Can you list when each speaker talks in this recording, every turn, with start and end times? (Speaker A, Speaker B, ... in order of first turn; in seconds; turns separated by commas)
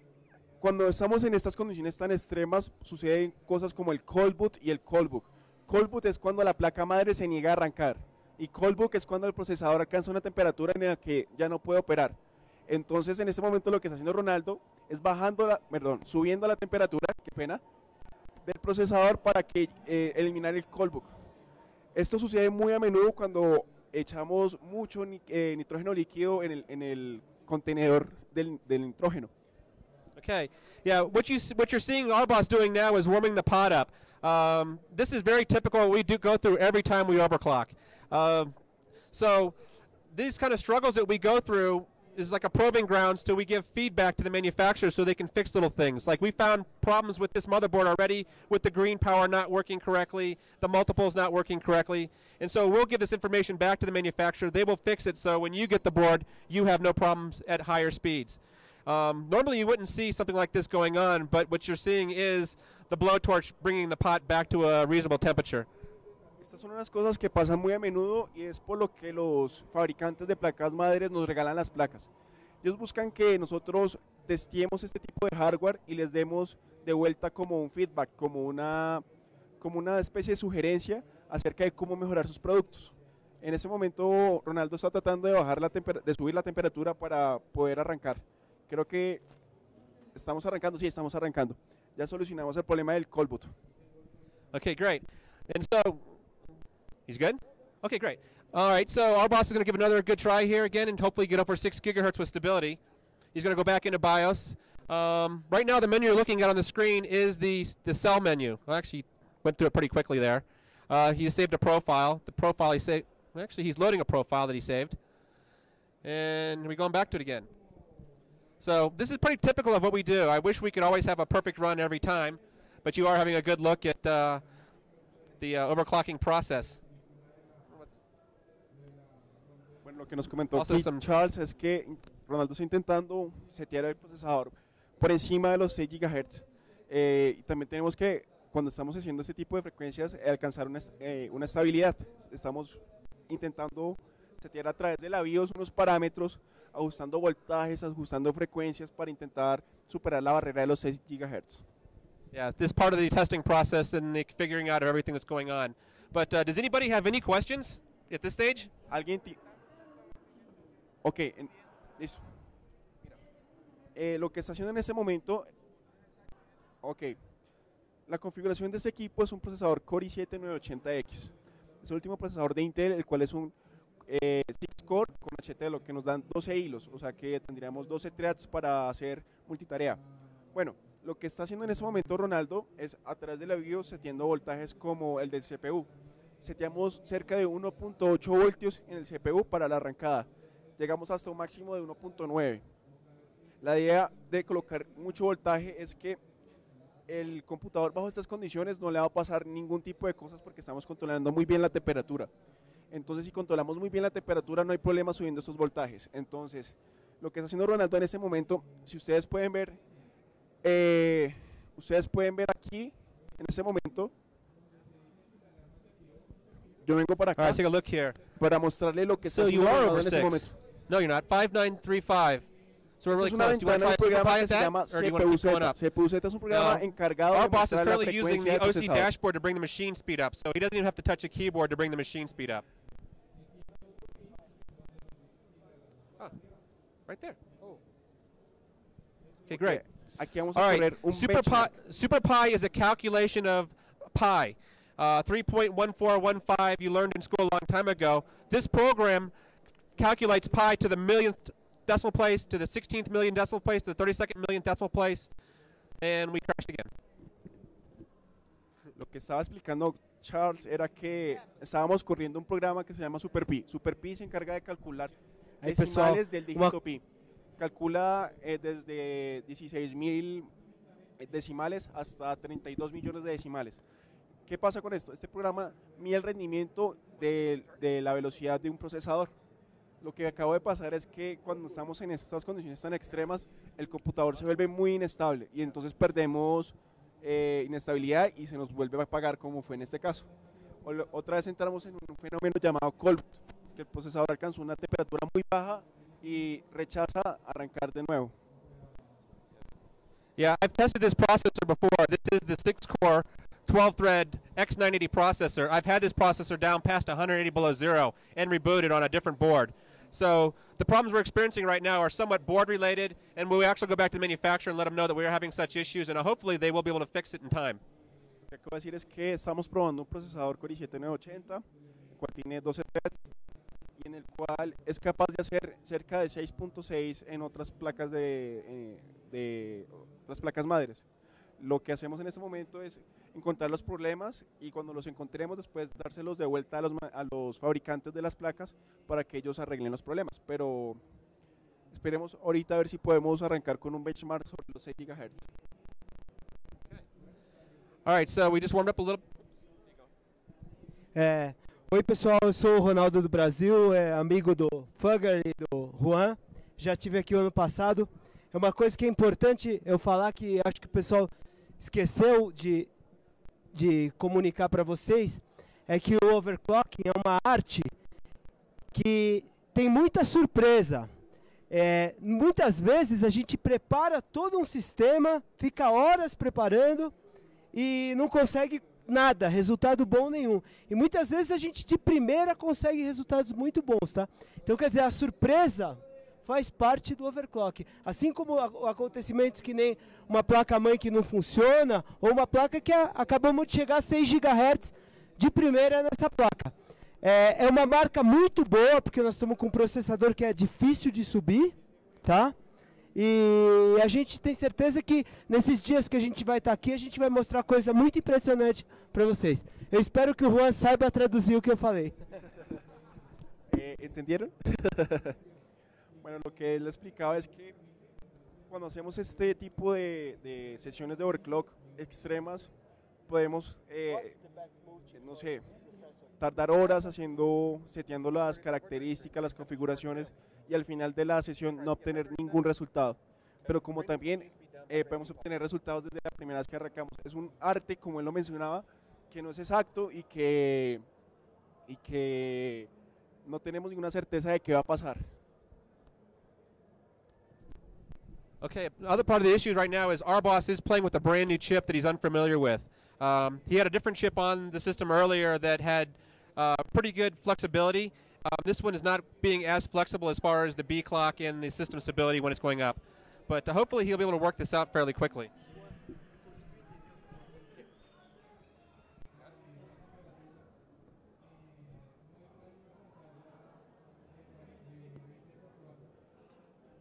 Speaker A: 0.6-17.6, Speaker A: 18.4-21.1, Speaker A: 21.9-29.3, Speaker B: 30.2-38.5, Speaker B: 39.1-39.6, Speaker B: 40.1-65.7, Speaker A: 66.4-72.1, Speaker A: 72.6-79.0, Speaker A: 79.6-89.2, Speaker A: 90.1-93.5, Speaker B: 94.5-96.2, Speaker B: 97.1-102.8, Speaker B: 103.3-115.0, Speaker B: 116.0-117.5, Speaker B: 118.6-124.4, Speaker B: 125.4-126.8, Speaker A: 129.8-151.6, Speaker B: 130.5-131.1, Speaker B: 152.3-158.7, Speaker A: 158.9-159.4, Speaker A: 161.0-162.2, Speaker A: 163.9-165.5, Speaker A: 166.8-167.2, Speaker A: 168.1-180.0, Speaker A: 180.5-185.9, Speaker A: 186.4-192.6, Speaker A: 193.6-196.2, Speaker A: 197.1-202.3, Speaker A: 202.9-209.8, Speaker A: 210.6-214.1, Speaker A: 216.8-217.6, Speaker B: 217.4-218.2, Speaker A: 218.4-220.5, Speaker B: 219.2-222.5, Speaker B: 223.0-225.8, Speaker A: 223.1-229.1, Speaker B: 226.5-232.6, Speaker B: 237.1-237.4, Speaker B: 239.5-239.8, Speaker A: 239.5-241.7, Speaker B: 240.5-249.3, Speaker B: 250.0-255.3, Speaker B: 256.0-256.9, Speaker A: 258.9-267.0, Speaker C: 265.6-266.8, Speaker A: 267.6-270.5, Speaker A: 271.2-273.8, Speaker A: 274.5-279.3, Speaker A: 280.0-290.3, Speaker A: 290.8-298.3, Speaker B: 300.4-317.8, Speaker A: 318.5-321.6, Speaker A: 322.2-323.2, Speaker A: 324.0-331.0, Speaker A: 331.6-341.0, Speaker A: 341.9-345.4, Speaker B: 348.1-349.2, Speaker C: 351.1-361.3, Speaker C: 361.8-362.9, Speaker C: 363.7-367.9, Speaker C: 368.9-371.1, Speaker C: 371.7-377.1, Speaker C: 377.7-402.5, Speaker C: 403.1-412.2, Speaker A: 413.7-415.4, Speaker A: 416.2-417.7, Speaker A: 418.7-422.7, Speaker A: 423.3-424.4, Speaker C: 424.6-425.0, Speaker A: 425.1-425.6, Speaker A: 426.4-441.0, Speaker B: 428.5-430.3, Speaker B: 431.7-432.5, Speaker B: 433.6-435.4, Speaker A: 441.9-442.9, Speaker A: 443.4-445.3, Speaker B: 448.6-465.5